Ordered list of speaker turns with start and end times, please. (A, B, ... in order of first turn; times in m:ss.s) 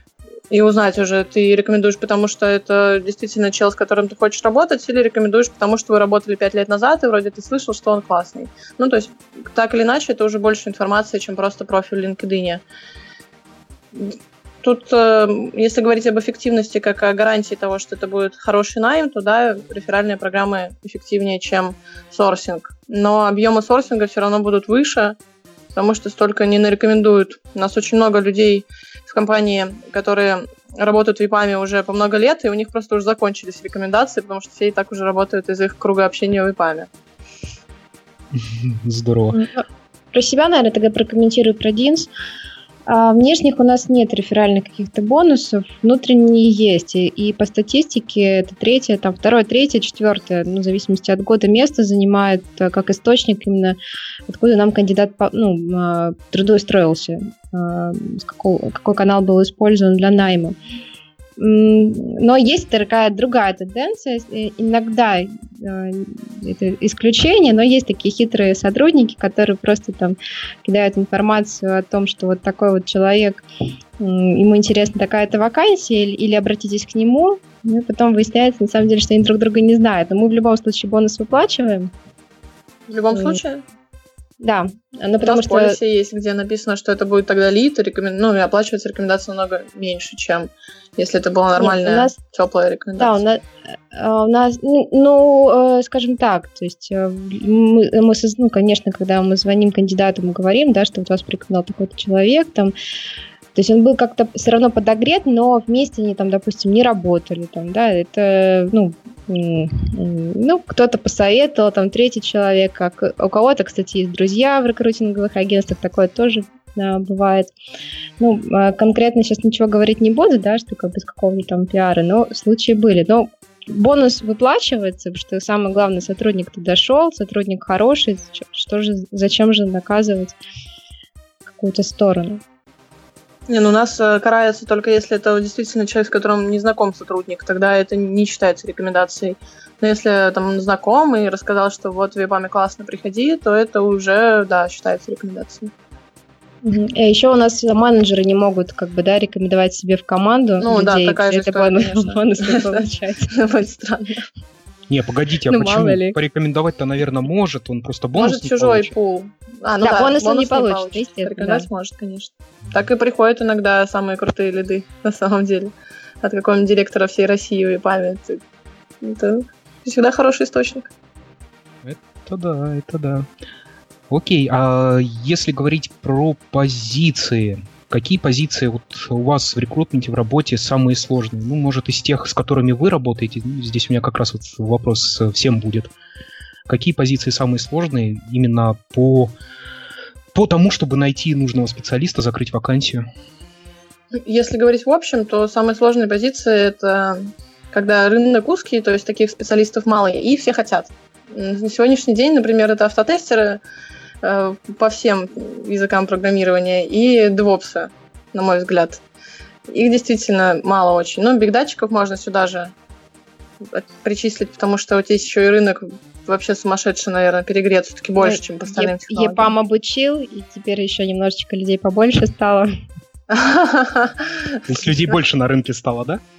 0:00.5-0:12.6 A
0:13.9-0:25.2 A
0:25.8-0:36.9 A
0:38.3-0:39.4 B
0:39.3-0:42.1 C
0:42.9-0:53.8 C
0:54.3-1:00.6 C
1:01.4-1:13.4 C
1:14.0-1:21.9 C
1:22.9-1:23.6 A
1:23.1-1:23.4 C
1:24.4-1:25.8 C
1:25.2-1:33.2 A
1:31.6-1:32.2 C
1:33.0-1:42.7 C
1:43.6-1:57.5 C
1:58.2-2:10.4 C
2:11.6-2:12.4 C
2:13.5-2:25.7 A
2:26.6-2:33.3 C
2:30.6-2:34.2 A
2:34.9-2:38.9 B
2:35.5-2:36.2 C
2:38.2-2:48.4 A
2:39.8-2:41.7 C
2:49.0-2:50.9 A
2:51.8-2:53.3 B
2:54.1-3:05.9 B
3:06.7-3:09.4 B
3:10.3-3:13.0 B
3:14.2-3:23.6 A
3:24.2-3:29.0 A
3:29.7-3:32.7 A
3:33.6-3:39.5 A
3:38.2-3:42.7 C
3:43.3-3:44.5 A
3:44.7-3:46.2 B